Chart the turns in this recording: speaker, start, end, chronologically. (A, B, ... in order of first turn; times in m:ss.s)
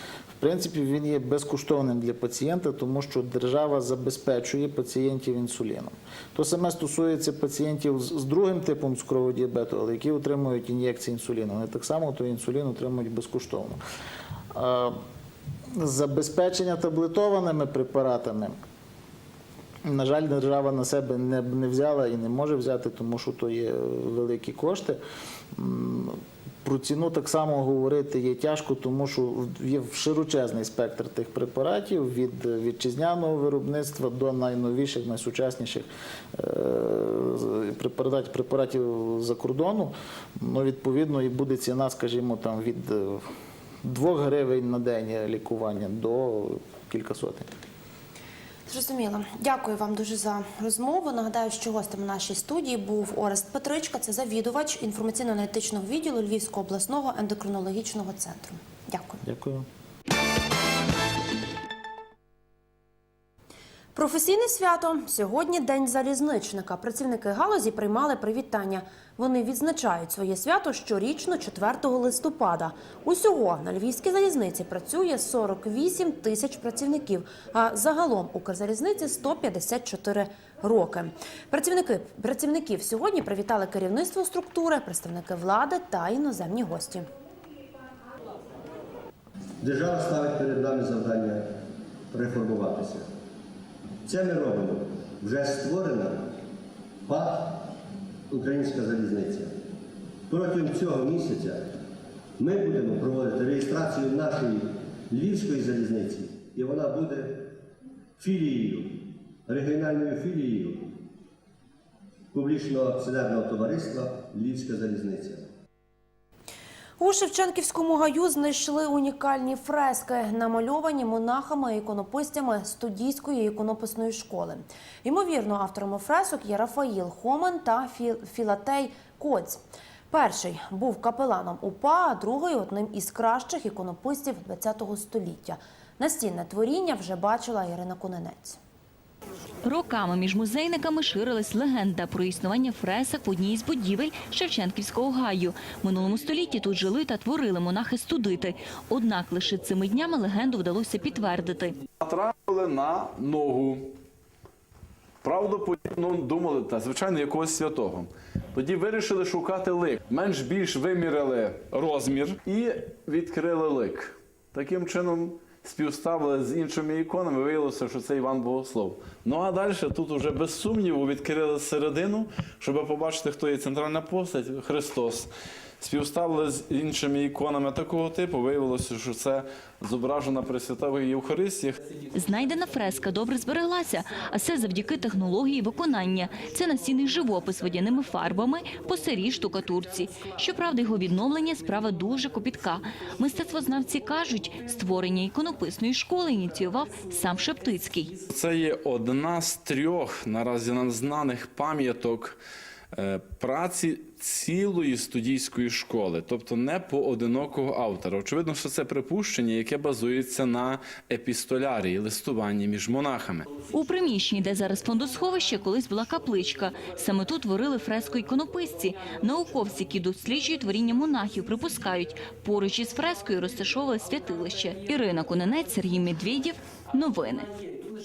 0:00.4-0:13.8 A
0:14.5-0:15.0 A
0:15.7-0:18.5 A
0:19.8-0:25.0 A
0:25.5-0:43.3 A
0:43.8-0:47.5 A
0:48.7-0:59.2 B
0:59.2-0:59.6 A
1:03.9-1:27.1 B
1:29.6-1:31.5 C
1:32.1-1:33.1 C
1:34.0-1:36.4 C
1:37.0-1:37.7 C
1:38.3-1:39.5 C
1:40.3-1:41.7 C
1:42.4-1:47.4 C
1:48.2-1:50.9 C
1:52.3-1:55.4 C
1:57.0-2:18.6 B
2:19.6-2:31.7 D
2:32.0-2:33.9 E
2:35.2-2:55.3 E
2:55.8-3:01.8 E
3:02.1-3:18.1 D
3:18.3-3:22.4 E
3:22.9-3:33.5 E
3:33.7-3:47.5 D